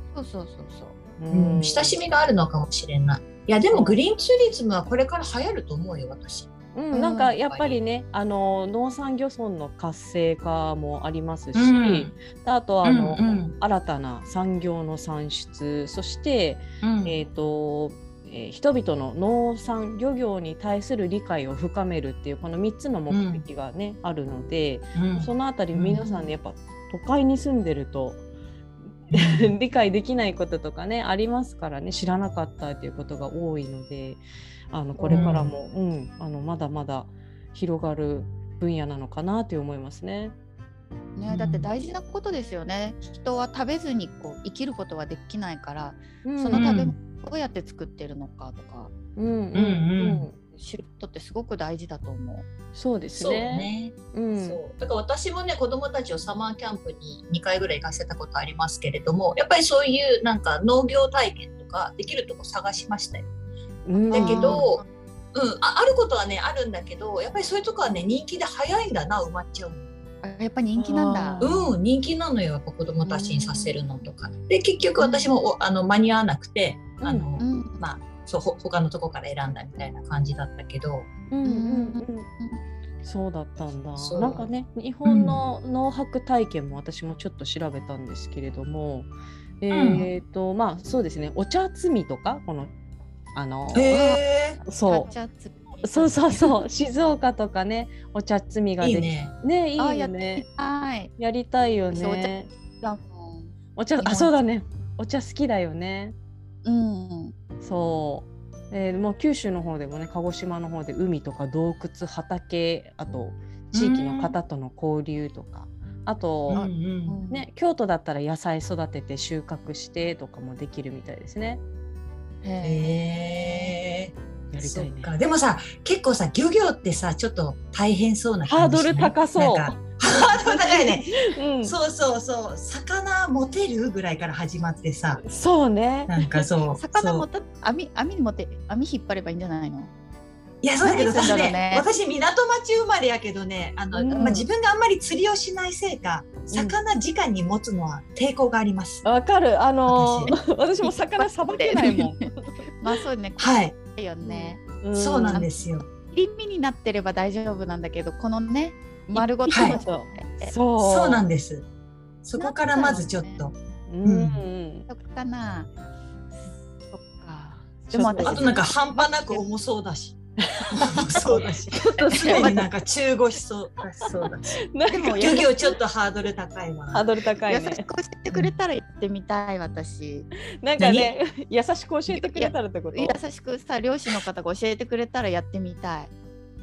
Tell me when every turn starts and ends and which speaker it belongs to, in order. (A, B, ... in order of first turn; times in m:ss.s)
0:00.1-0:01.0 A
0:01.2-0:02.0 B
0:01.3-0:06.5 C
0:03.7-0:04.0 B
0:06.8-0:28.2 B
0:06.9-0:07.3 A
0:07.5-0:07.8 C
0:11.5-0:12.1 C
0:12.8-0:13.5 C
0:16.8-0:17.2 C
0:23.1-0:23.4 C
0:25.0-0:26.0 C
0:26.0-0:26.3 A
0:29.1-0:40.3 B
0:29.1-0:29.5 C
0:35.0-0:35.3 A
0:35.1-0:35.5 C
0:41.2-0:48.9 A
0:41.3-0:41.7 C
0:46.2-0:46.8 B
0:46.5-0:47.0 C
0:49.2-0:50.4 B
0:49.5-0:50.3 C
0:50.5-0:52.5 A
0:52.8-0:54.6 B
0:53.2-1:03.3 C
1:03.9-1:04.6 B
1:04.0-1:04.8 A
1:04.1-1:04.8 C
1:05.3-1:09.9 C
1:10.2-1:11.4 A
1:10.8-1:11.7 B
1:11.4-1:21.1 C
1:13.0-1:13.8 A
1:15.0-1:15.3 A
1:17.0-1:17.3 B
1:17.4-1:17.8 A
1:21.3-1:22.3 B
1:21.4-1:22.6 A
1:23.0-1:32.7 B
1:24.0-1:24.5 C
1:25.0-1:25.4 C
1:29.7-1:30.1 C
1:33.4-1:34.0 B
1:33.7-1:34.6 C
1:33.9-1:34.2 A
1:34.6-1:35.1 B
1:34.8-1:36.6 A
1:35.8-1:40.4 B
1:38.8-1:39.3 C
1:39.8-1:41.1 A
1:41.2-1:42.5 B
1:41.9-1:44.4 A
1:43.8-1:46.2 B
1:46.6-1:47.4 A
1:47.6-1:56.6 B
1:53.7-1:54.4 C
1:56.5-1:57.2 C
1:56.5-1:57.5 A
1:57.3-2:01.6 B
2:02.4-2:03.7 A
2:02.6-2:15.2 C
2:04.5-2:05.1 B
2:08.5-2:11.8 B
2:15.2-2:16.2 B
2:16.1-2:17.3 C
2:16.8-2:19.9 A
2:20.6-2:29.0 C
2:20.8-2:21.9 A
2:23.9-2:24.5 B
2:24.1-2:24.4 A
2:26.5-2:26.8 B
2:29.0-2:32.4 B
2:29.9-2:30.4 C
2:30.8-2:32.3 A
2:32.8-2:34.6 A
2:33.4-2:33.8 C
2:34.2-2:35.4 B
2:34.9-2:35.9 C
2:36.1-2:40.5 A
2:39.1-2:41.2 B
2:39.5-2:39.8 C
2:40.8-2:41.7 C
2:42.2-2:44.4 C
2:42.4-2:43.4 A
2:43.9-2:44.9 B
2:44.9-2:45.7 A
2:46.3-2:49.4 A
2:47.9-2:48.5 B
2:48.2-2:57.0 C
2:50.4-2:52.6 B
2:51.8-2:52.7 A
2:54.7-2:55.5 B
2:54.9-2:55.5 A
2:56.9-2:57.9 B
2:57.5-3:00.3 A
3:00.6-3:03.2 B
3:00.8-3:01.1 C
3:02.1-3:06.1 A